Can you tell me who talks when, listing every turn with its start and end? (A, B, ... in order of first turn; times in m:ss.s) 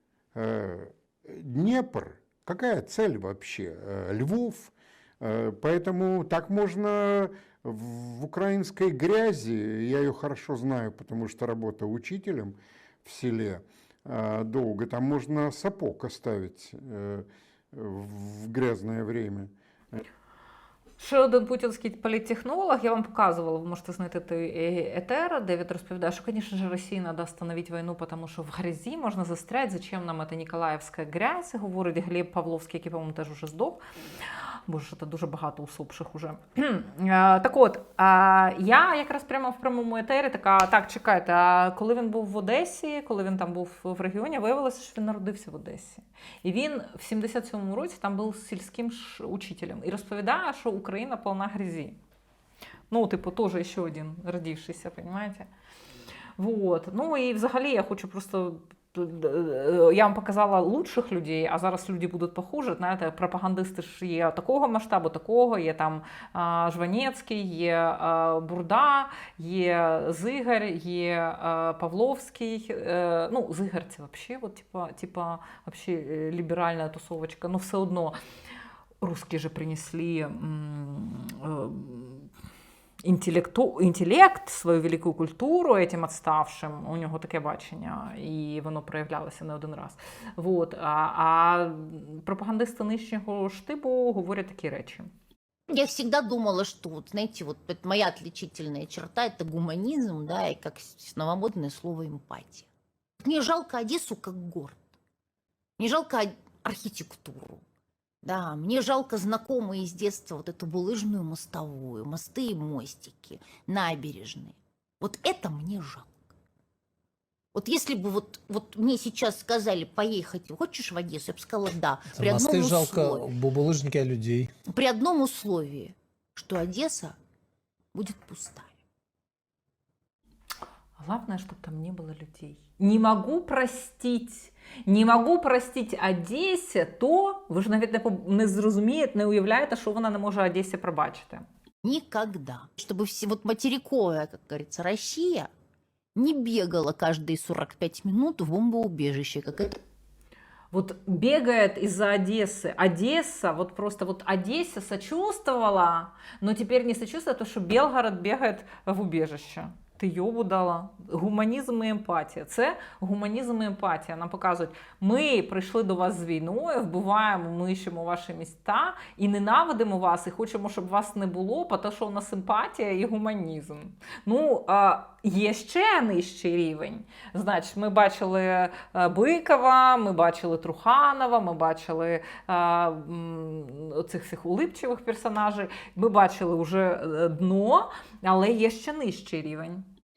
0:00.4-0:20.0 A
0:21.0-0:33.8 B
0:34.7-0:52.0 B
0:52.9-0:55.5 B
0:56.4-1:18.2 B
1:19.0-1:22.3 B
1:23.0-1:35.1 B
1:35.7-1:42.7 C
1:43.2-1:44.8 C
1:45.8-1:47.6 C
1:48.2-1:56.1 C
1:57.6-2:03.3 C
2:02.1-2:04.5 D
2:04.7-2:07.2 C
2:07.9-2:08.7 C
2:11.0-2:21.4 B
2:21.8-2:25.5 C
2:26.2-2:29.8 C
2:30.7-3:09.9 B